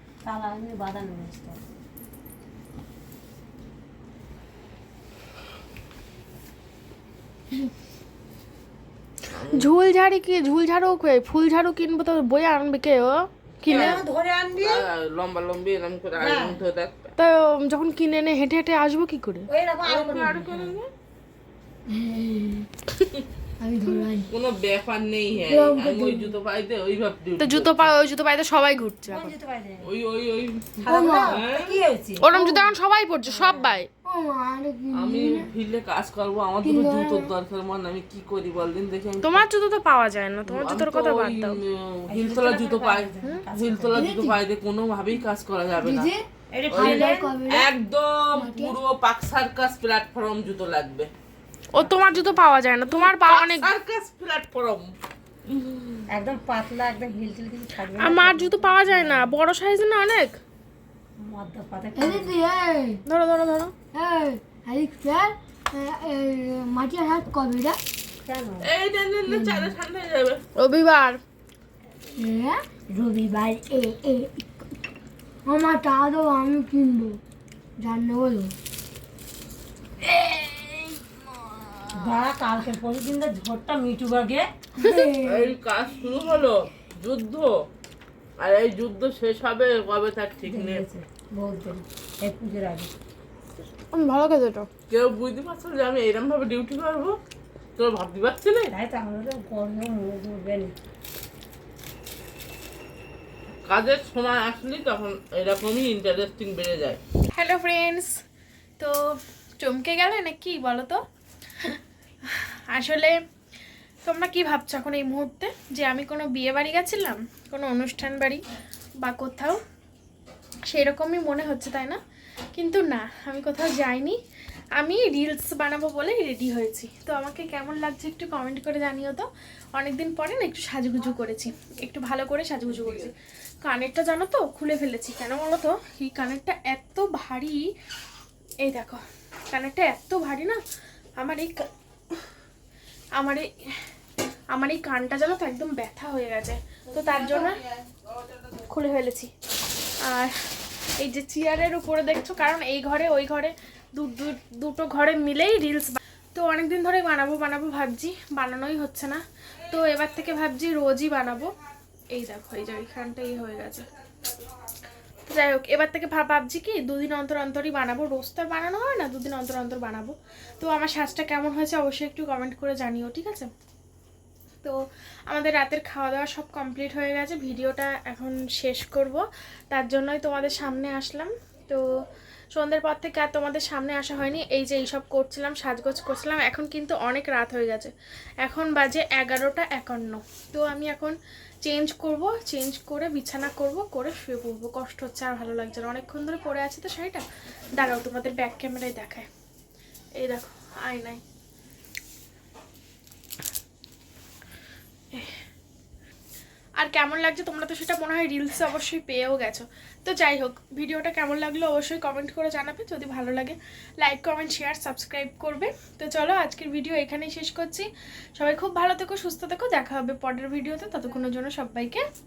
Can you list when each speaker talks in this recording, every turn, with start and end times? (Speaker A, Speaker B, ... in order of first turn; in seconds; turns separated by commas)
Speaker A: 0.2-1.6, Speaker B: 9.3-9.7, Speaker C: 9.5-14.0, Speaker B: 13.6-14.0, Speaker A: 13.7-14.8, Speaker B: 14.5-17.1, Speaker A: 16.2-16.6, Speaker C: 17.2-19.5, Speaker A: 19.5-20.8, Speaker B: 19.8-20.9, Speaker D: 21.9-22.7, Speaker D: 23.6-24.3, Speaker B: 24.3-27.9, Speaker D: 25.4-26.4, Speaker C: 27.4-29.3, Speaker A: 29.1-29.9, Speaker B: 29.8-31.8, Speaker A: 30.8-32.7, Speaker D: 30.9-31.5, Speaker C: 32.2-33.9, Speaker A: 33.4-33.8, Speaker D: 34.0-35.5, Speaker B: 34.9-39.5, Speaker D: 36.6-37.3, Speaker C: 39.2-41.6, Speaker B: 40.4-46.1, Speaker A: 42.1-44.1, Speaker D: 43.9-44.4, Speaker D: 45.8-47.7, Speaker A: 46.5-47.4, Speaker B: 46.7-51.1, Speaker D: 48.3-48.8, Speaker C: 51.7-53.7, Speaker A: 51.8-52.4, Speaker B: 52.9-54.9, Speaker A: 56.1-59.3, Speaker C: 58.0-60.4, Speaker A: 61.2-62.3, Speaker D: 62.0-63.0, Speaker C: 63.1-63.7, Speaker D: 63.9-67.8, Speaker A: 68.2-68.7, Speaker B: 68.6-70.4, Speaker D: 69.3-69.7, Speaker C: 70.5-71.2, Speaker D: 72.2-74.4, Speaker D: 75.5-77.2, Speaker D: 77.8-78.5, Speaker A: 81.9-84.9, Speaker C: 84.8-85.1, Speaker D: 85.1-85.5, Speaker B: 85.2-87.5, Speaker B: 88.4-90.8, Speaker A: 90.4-92.9, Speaker C: 93.9-94.7, Speaker B: 94.9-97.1, Speaker B: 97.8-98.7, Speaker A: 98.7-100.7, Speaker B: 103.7-107.0, Speaker C: 107.3-108.1, Speaker C: 109.6-111.0, Speaker C: 111.6-113.1, Speaker C: 114.0-118.4, Speaker C: 119.0-119.6, Speaker C: 120.7-122.0, Speaker C: 122.5-124.2, Speaker C: 124.8-137.7, Speaker C: 138.6-140.6, Speaker C: 141.2-141.7, Speaker C: 143.2-143.5, Speaker C: 144.5-147.6, Speaker B: 146.9-148.0, Speaker C: 148.7-149.3, Speaker C: 150.0-150.3, Speaker C: 151.0-161.5, Speaker C: 162.1-163.8, Speaker C: 165.3-173.5, Speaker C: 175.3-181.8, Speaker C: 182.5-187.9, Speaker C: 188.4-197.2, Speaker C: 197.8-199.3, Speaker C: 200.2-201.2, Speaker C: 206.8-222.0